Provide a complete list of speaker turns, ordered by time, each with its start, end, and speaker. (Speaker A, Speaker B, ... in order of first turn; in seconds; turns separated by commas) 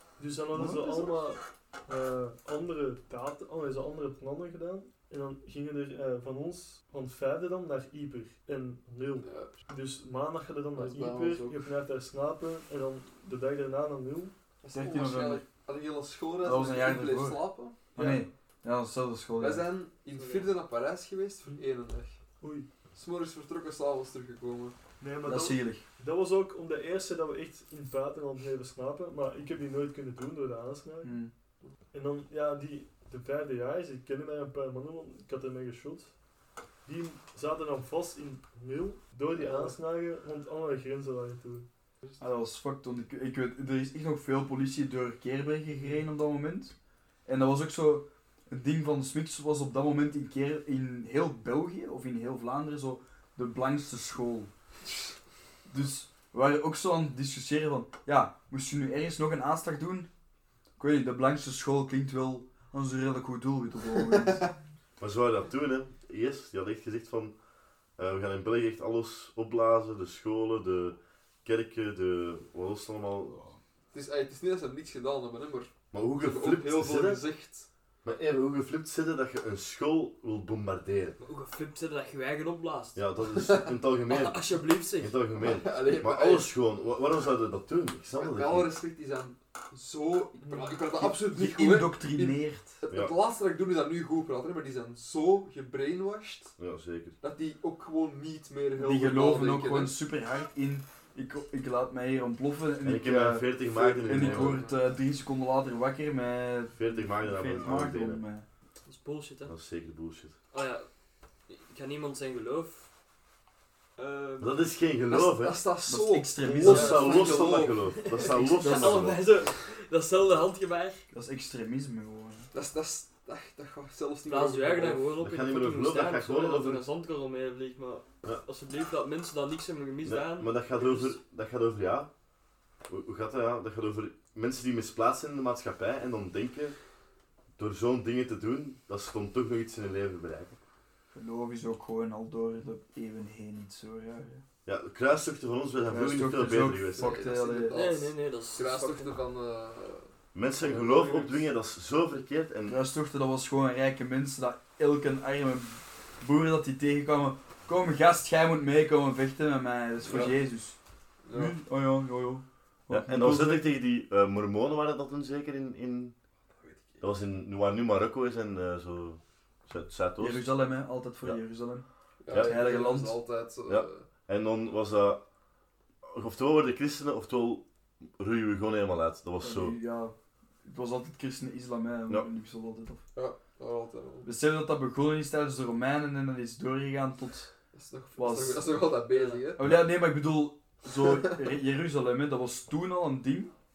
Speaker A: 0.2-14.3, Speaker B: 0.5-1.2, Speaker C: 9.2-9.6, Speaker C: 10.7-11.7, Speaker C: 14.6-17.8, Speaker B: 14.7-15.4, Speaker B: 16.4-19.7, Speaker A: 17.9-18.2, Speaker C: 19.4-22.2, Speaker D: 20.1-20.5, Speaker A: 22.4-22.7, Speaker C: 22.9-24.8, Speaker A: 25.0-31.2, Speaker B: 25.2-25.8, Speaker B: 31.0-31.3, Speaker A: 31.9-36.1, Speaker A: 36.8-41.7, Speaker C: 39.3-39.7, Speaker B: 42.2-46.7, Speaker A: 45.7-46.0, Speaker B: 47.2-54.5, Speaker B: 55.7-60.1, Speaker B: 60.8-64.5, Speaker E: 65.0-67.3, Speaker E: 68.0-73.4, Speaker C: 73.9-77.7, Speaker E: 75.9-77.2, Speaker E: 78.0-81.2, Speaker D: 81.2-83.0, Speaker E: 83.0-88.7, Speaker C: 83.4-83.7, Speaker D: 84.1-85.2, Speaker C: 85.4-86.5, Speaker C: 88.1-96.5, Speaker A: 90.4-90.8, Speaker B: 91.0-92.8, Speaker E: 96.6-97.2, Speaker C: 97.2-100.0, Speaker B: 98.8-103.5, Speaker E: 102.8-104.6, Speaker C: 103.7-104.8, Speaker B: 104.0-108.5, Speaker E: 106.8-108.2, Speaker D: 108.8-109.5, Speaker E: 109.5-110.3, Speaker D: 110.5-110.9, Speaker D: 111.5-112.9, Speaker D: 114.0-114.6, Speaker E: 114.4-115.6, Speaker C: 115.1-118.3, Speaker B: 115.8-117.3, Speaker E: 116.6-119.2, Speaker D: 116.7-121.0, Speaker B: 118.6-119.0, Speaker B: 121.1-122.5, Speaker C: 122.5-125.1, Speaker D: 124.2-131.2, Speaker E: 125.2-126.8, Speaker E: 130.0-132.1, Speaker E: 132.9-136.7, Speaker E: 137.6-140.6, Speaker B: 141.1-144.4, Speaker E: 144.7-147.2, Speaker B: 145.8-147.8, Speaker C: 146.9-151.5, Speaker D: 147.7-149.1, Speaker E: 150.3-152.8, Speaker B: 152.7-160.8, Speaker C: 160.0-160.4, Speaker C: 161.2-161.6, Speaker B: 161.3-163.7, Speaker E: 162.9-166.1, Speaker C: 166.6-167.0, Speaker E: 167.0-170.5, Speaker B: 170.2-173.2, Speaker C: 172.2-174.0, Speaker E: 172.3-172.5, Speaker E: 173.7-175.2, Speaker E: 176.0-177.6, Speaker E: 178.2-179.8, Speaker B: 179.4-183.0, Speaker C: 183.1-184.3, Speaker B: 184.2-187.5, Speaker C: 187.7-189.6, Speaker B: 188.2-188.7, Speaker D: 189.1-189.5, Speaker B: 189.6-193.5